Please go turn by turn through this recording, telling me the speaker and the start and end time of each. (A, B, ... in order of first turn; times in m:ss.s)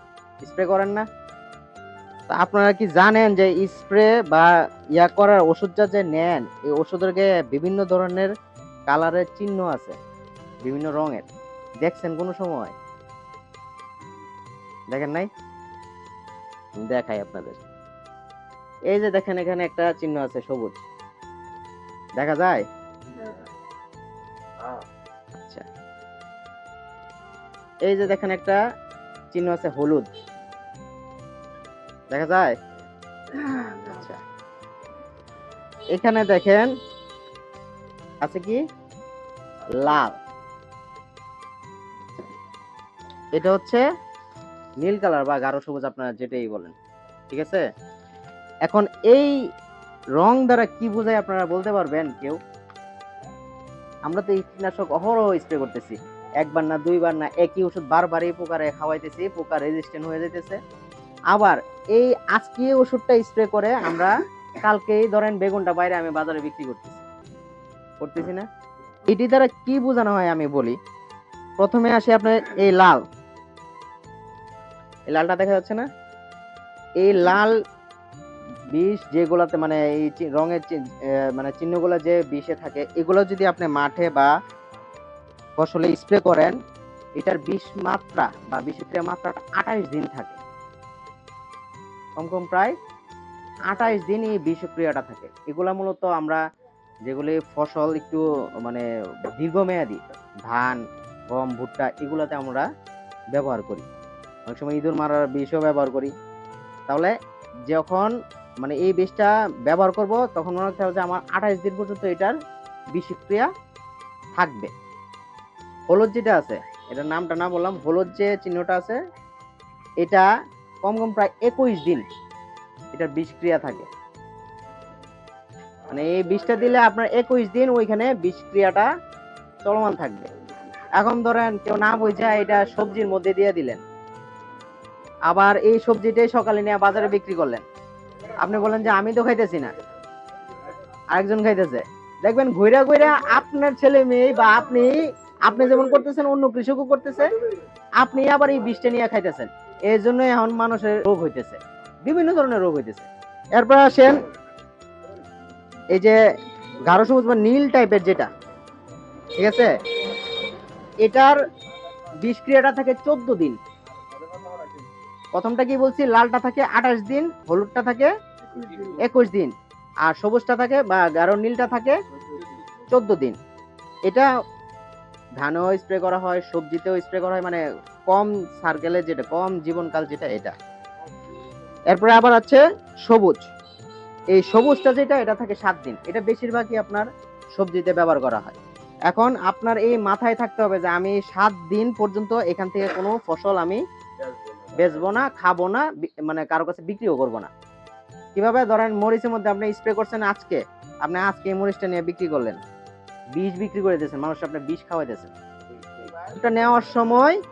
0:00.4-0:01.0 A
0:02.3-0:08.3 A
0:08.9-0:10.0 A
0:10.6-0:11.3 A
0:11.8-0:12.7 A
0:14.9-0:15.3 A
0:16.8-0:17.6 A
0:18.9-0:20.9 A
0:22.2-0:22.6 A
0:25.4-0:25.7 A
0:27.9-0:28.6 A
0:29.3-0:30.1 A
0:32.1-0:32.6 A
0:33.3-0:34.2 A
0:35.9-0:36.7 A
0:38.2-0:38.6 A
0:39.8-0:40.2 A
0:43.3-0:43.8 A
0:44.8-0:46.7 A
0:47.3-0:47.6 A
0:48.7-0:49.4 A
0:50.2-0:52.4 A
0:54.1-1:00.6 A
1:01.3-1:07.0 A
1:08.0-1:08.5 A
1:09.1-1:10.8 A
1:11.6-1:13.0 A
1:15.1-1:15.9 A
1:17.0-1:17.5 A
1:18.7-1:24.3 A
1:25.6-1:26.6 A
1:27.2-1:30.4 A
1:32.2-1:32.7 A
1:33.7-1:36.4 A
1:37.1-1:42.7 A
1:43.3-1:43.9 A
1:44.5-1:46.1 A
1:47.7-1:52.4 A
1:52.9-1:53.5 A
1:54.4-1:54.7 A
1:55.9-1:59.0 A
2:00.8-2:02.1 A
2:02.9-2:03.9 A
2:05.9-2:08.9 A
2:09.6-2:10.3 A
2:11.0-2:13.8 A
2:15.3-2:17.6 A
2:18.4-2:19.7 A
2:21.1-2:27.3 A
2:28.0-2:34.2 A
2:36.8-2:38.3 A
2:39.4-2:39.8 A
2:41.0-2:41.4 A
2:42.2-2:43.6 A
2:45.4-2:48.1 A
2:48.8-2:49.5 A
2:50.0-2:52.0 A
2:52.9-2:53.4 A
2:55.4-3:00.5 A
3:01.9-3:03.5 A
3:04.3-3:08.6 A
3:09.1-3:13.8 A
3:14.7-3:17.5 A
3:18.4-3:22.6 A
3:23.4-3:25.3 A
3:26.1-3:27.4 A